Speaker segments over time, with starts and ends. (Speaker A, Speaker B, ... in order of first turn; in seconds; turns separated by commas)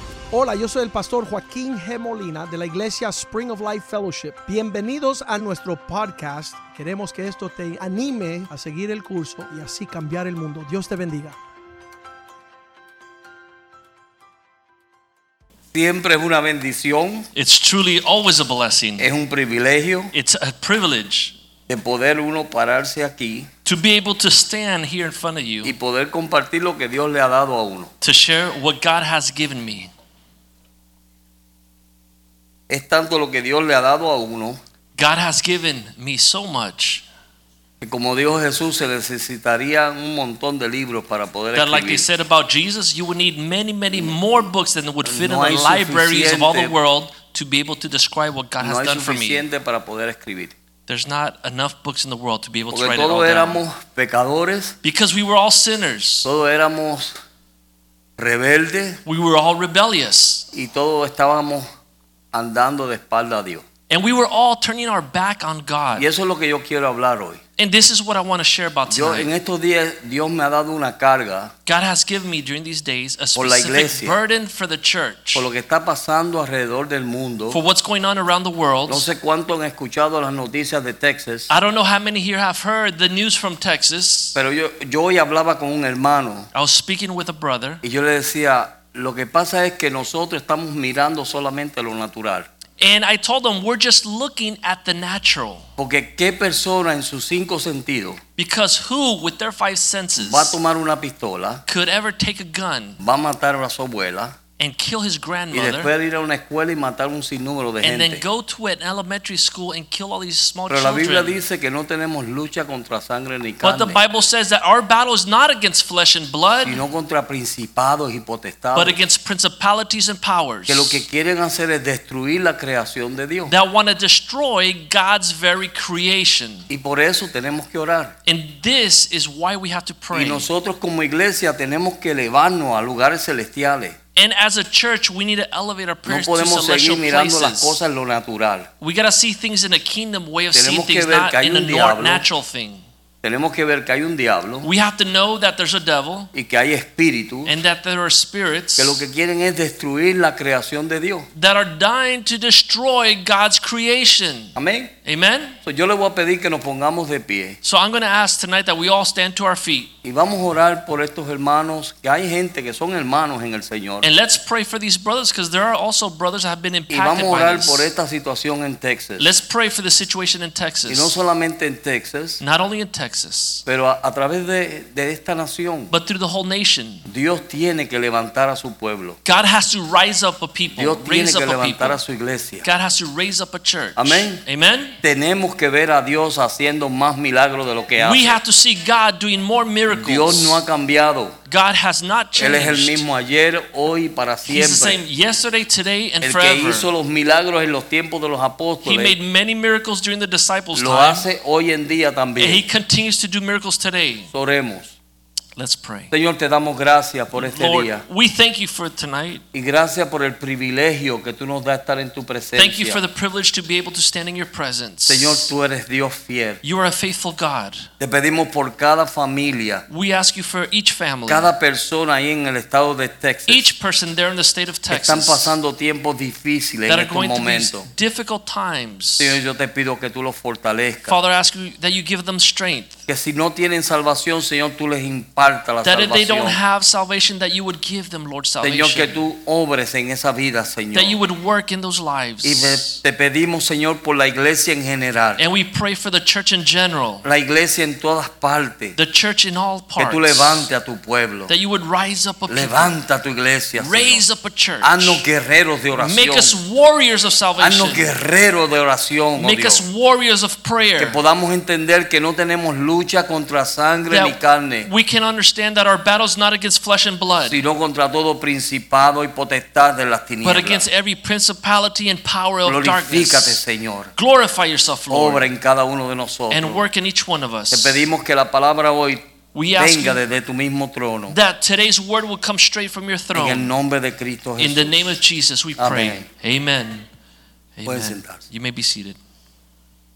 Speaker A: 0.3-11.3, Speaker B: 15.7-17.3, Speaker C: 17.3-19.1, Speaker B: 19.0-20.1, Speaker C: 20.1-21.3, Speaker B: 21.7-23.5, Speaker C: 23.6-25.7, Speaker B: 25.6-27.9, Speaker C: 28.0-29.9, Speaker B: 32.7-34.6, Speaker C: 35.0-37.0, Speaker B: 37.8-42.0, Speaker C: 41.5-49.4, Speaker B: 45.0-46.8, Speaker B: 48.6-50.5, Speaker C: 50.9-53.6, Speaker B: 52.7-54.7, Speaker C: 54.8-56.3, Speaker B: 56.2-57.1, Speaker B: 58.2-59.0, Speaker C: 59.0-60.5, Speaker B: 60.5-61.6, Speaker B: 62.3-63.6, Speaker C: 63.9-66.0, Speaker B: 66.0-67.4, Speaker C: 67.6-69.3, Speaker B: 68.9-71.5, Speaker C: 71.7-75.4, Speaker B: 73.3-74.1, Speaker B: 75.3-77.6, Speaker C: 77.5-79.1, Speaker B: 78.9-81.5, Speaker C: 81.5-84.3, Speaker B: 84.3-86.5, Speaker C: 86.5-87.8, Speaker B: 87.8-92.5, Speaker C: 92.8-95.7, Speaker B: 95.8-98.2, Speaker C: 98.4-100.6, Speaker B: 100.2-101.6, Speaker C: 101.7-103.0, Speaker B: 103.0-104.3, Speaker C: 104.6-105.9, Speaker B: 105.5-108.2, Speaker C: 107.8-111.4, Speaker B: 110.7-114.0, Speaker C: 113.6-116.8, Speaker B: 116.6-119.0, Speaker C: 118.7-121.0, Speaker B: 120.7-123.5, Speaker C: 123.5-126.7, Speaker B: 126.7-128.1, Speaker C: 128.2-130.5, Speaker B: 130.1-134.0, Speaker C: 134.2-137.8, Speaker B: 136.1-138.7, Speaker C: 138.8-142.8, Speaker B: 140.5-142.2, Speaker B: 143.2-144.7, Speaker C: 144.6-146.3, Speaker B: 146.3-147.6, Speaker C: 147.4-149.0, Speaker B: 148.8-151.3, Speaker C: 151.3-154.5, Speaker B: 154.6-154.9, Speaker C: 155.0-155.6, Speaker B: 155.6-157.6, Speaker C: 157.6-159.9, Speaker B: 160.0-164.1, Speaker C: 164.0-167.8, Speaker B: 166.9-169.3, Speaker C: 169.2-171.1, Speaker B: 170.9-172.4, Speaker C: 172.4-173.6, Speaker B: 173.7-175.9, Speaker C: 175.9-177.1, Speaker B: 177.1-179.2, Speaker C: 179.2-182.0, Speaker B: 180.7-182.7, Speaker C: 182.6-185.0, Speaker B: 184.0-184.4, Speaker B: 185.0-188.4, Speaker C: 187.9-190.6, Speaker B: 189.9-191.3, Speaker C: 191.5-193.0, Speaker B: 192.4-195.0, Speaker C: 194.4-196.9, Speaker B: 196.2-199.1, Speaker C: 198.8-201.2, Speaker B: 200.7-202.6, Speaker C: 202.4-204.3, Speaker B: 204.3-204.9, Speaker C: 205.6-206.1, Speaker B: 206.1-208.0, Speaker C: 207.3-209.4, Speaker B: 209.5-213.0, Speaker C: 212.6-215.5, Speaker B: 215.1-216.6, Speaker C: 216.6-217.9, Speaker B: 218.0-219.8, Speaker C: 219.9-221.5, Speaker B: 221.3-223.7, Speaker C: 223.5-225.5, Speaker B: 224.9-227.9, Speaker C: 226.9-229.4, Speaker B: 229.2-231.2, Speaker C: 231.1-233.0, Speaker B: 233.1-236.6, Speaker C: 235.8-239.2, Speaker B: 238.6-241.2, Speaker C: 240.9-243.0, Speaker B: 242.4-245.4, Speaker C: 245.4-247.2, Speaker B: 247.2-248.9, Speaker C: 248.9-250.7, Speaker B: 250.0-251.5, Speaker C: 251.5-252.9, Speaker B: 252.5-254.2, Speaker C: 253.8-255.2, Speaker B: 254.8-256.6, Speaker C: 255.9-258.1, Speaker B: 257.6-259.8, Speaker C: 259.4-261.2, Speaker B: 261.0-264.9, Speaker C: 264.1-267.6, Speaker B: 267.4-270.8, Speaker C: 270.4-273.6, Speaker B: 272.6-274.1, Speaker C: 274.1-275.5, Speaker B: 275.1-276.8, Speaker C: 276.5-278.1, Speaker B: 277.7-279.2, Speaker C: 279.5-280.2, Speaker B: 279.7-281.4, Speaker C: 281.3-283.7, Speaker B: 283.3-285.2, Speaker C: 284.6-287.1, Speaker B: 285.8-286.2, Speaker C: 287.8-289.2, Speaker B: 287.9-288.4